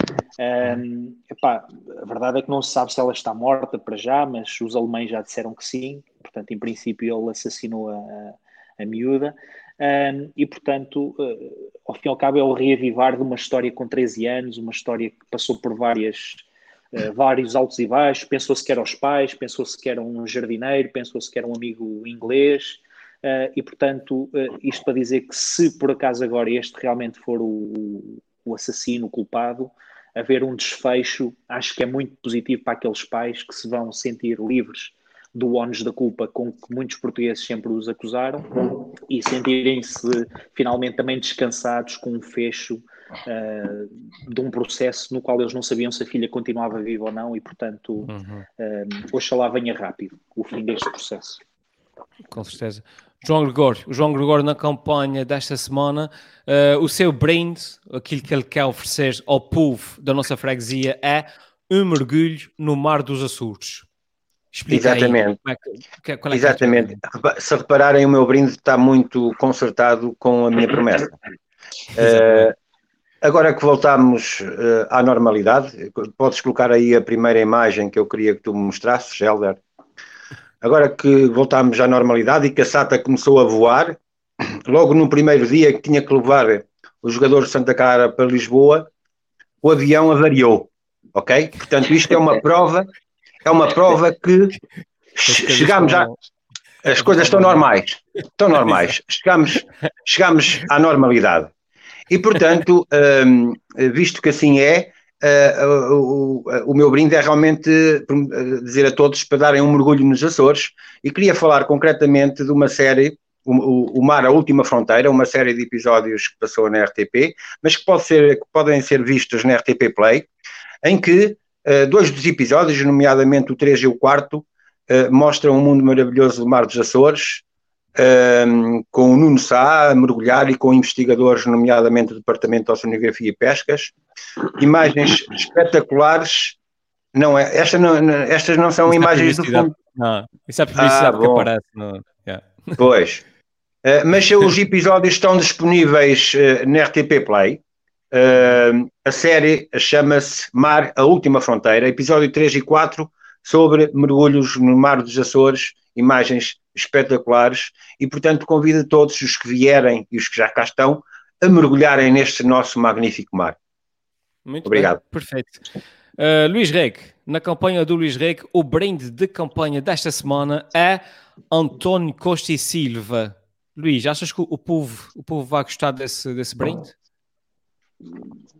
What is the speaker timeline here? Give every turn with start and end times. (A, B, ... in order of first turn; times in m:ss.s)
0:00.4-0:51.4 A
0:48.1-0:48.4 B
0:52.3-1:03.9 B
1:04.5-1:07.0 B
1:04.7-1:05.4 C
1:06.3-1:11.2 C
1:12.0-1:12.5 B
1:12.0-1:12.5 C
1:13.2-1:19.6 C
1:20.6-1:24.0 C
1:24.7-1:28.9 C
1:29.6-1:32.9 C
1:33.4-1:34.6 C
1:35.2-1:36.1 C
1:35.2-1:36.2 B
1:36.8-1:41.5 C
1:37.0-1:37.7 B
1:42.1-2:00.3 C
2:00.8-2:07.4 C
2:08.0-2:13.9 C
2:14.5-2:16.6 C
2:17.1-2:19.7 C
2:18.9-2:22.8 B
2:20.8-2:21.5 C
2:22.8-2:23.2 C
2:23.8-2:27.6 C
2:28.1-2:43.6 C
2:44.5-2:45.6 B
2:44.7-2:45.0 C
2:46.2-2:56.9 B